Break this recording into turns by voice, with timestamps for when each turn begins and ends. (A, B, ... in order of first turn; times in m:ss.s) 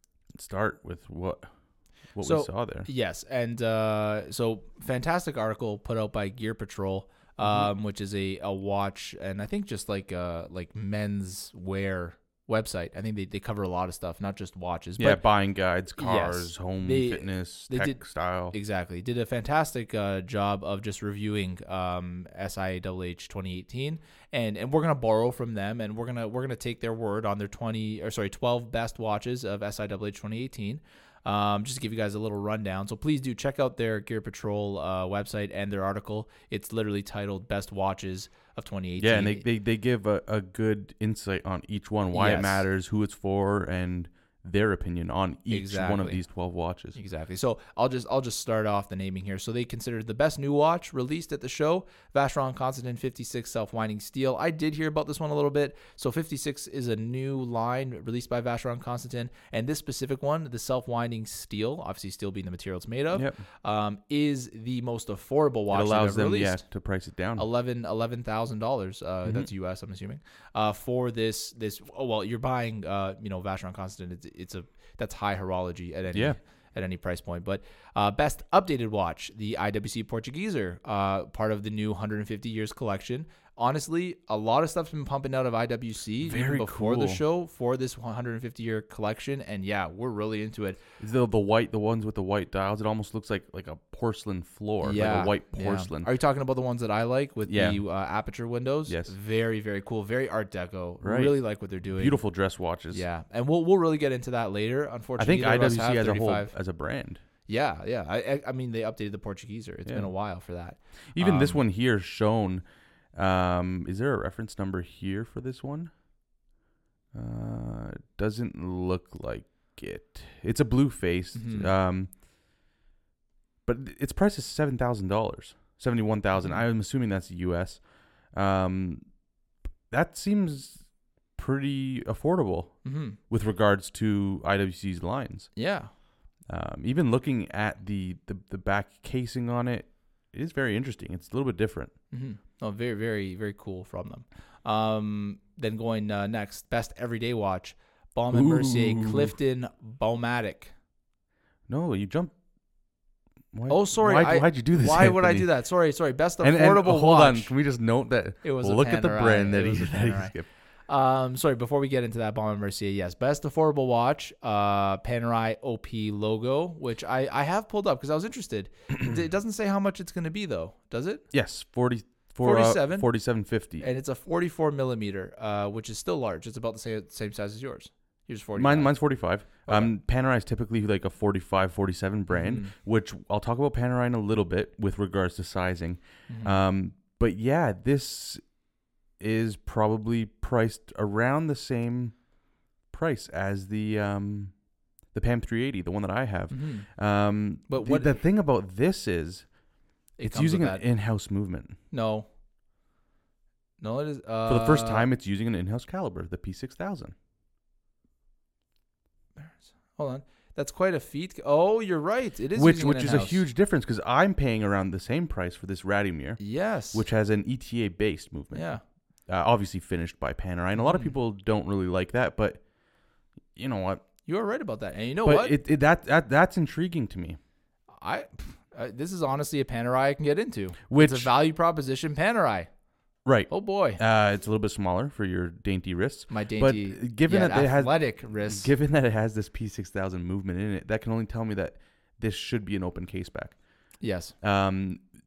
0:00.3-0:02.9 A
0:02.2-0:15.2 B
0:07.4-0:07.7 A
0:15.0-0:18.5 A
0:15.9-0:39.4 B
0:39.0-0:47.0 A
0:42.1-0:42.6 B
0:45.5-0:46.2 B
0:46.9-1:30.8 B
1:03.1-1:03.4 A
1:05.7-1:07.4 A
1:09.2-1:09.5 A
1:16.1-1:16.4 A
1:26.2-1:27.2 A
1:31.0-1:36.1 A
1:34.8-1:46.6 B
1:37.4-1:37.8 A
1:38.8-1:39.1 A
1:41.0-1:43.0 A
1:45.2-1:47.2 A
1:47.4-1:51.6 B
1:49.8-1:50.4 A
1:51.1-1:56.0 A
1:57.1-2:02.1 A
2:01.3-2:01.7 B
2:03.6-2:09.3 A
2:06.4-2:06.6 B
2:09.9-2:15.6 A
2:12.8-2:13.2 B
2:15.6-2:15.9 B
2:16.5-2:22.0 A
2:22.1-2:30.7 B
2:28.3-2:29.3 A
2:31.7-2:32.4 A
2:33.5-2:35.8 A
2:33.7-2:37.6 B
2:36.4-2:40.5 A
2:38.4-2:51.2 B
2:51.3-2:53.9 A
2:52.4-2:59.9 B
2:58.5-3:21.8 A
3:02.3-3:02.7 B
3:06.3-3:06.6 B
3:16.5-3:18.1 B
3:20.2-3:21.4 B
3:21.9-3:22.3 B
3:23.8-3:25.1 B
3:24.5-3:27.2 A
3:29.4-3:33.4 B
3:32.5-3:42.7 A
3:36.4-3:37.0 B
3:38.5-3:38.8 B
3:40.8-3:41.1 B
3:43.5-3:44.0 A
3:44.2-3:45.6 B
3:45.2-3:47.4 A
3:47.9-3:52.7 B
3:50.9-3:51.3 A
3:53.2-4:05.1 A
3:53.5-3:54.0 B
3:56.3-3:58.7 B
4:04.0-4:04.3 B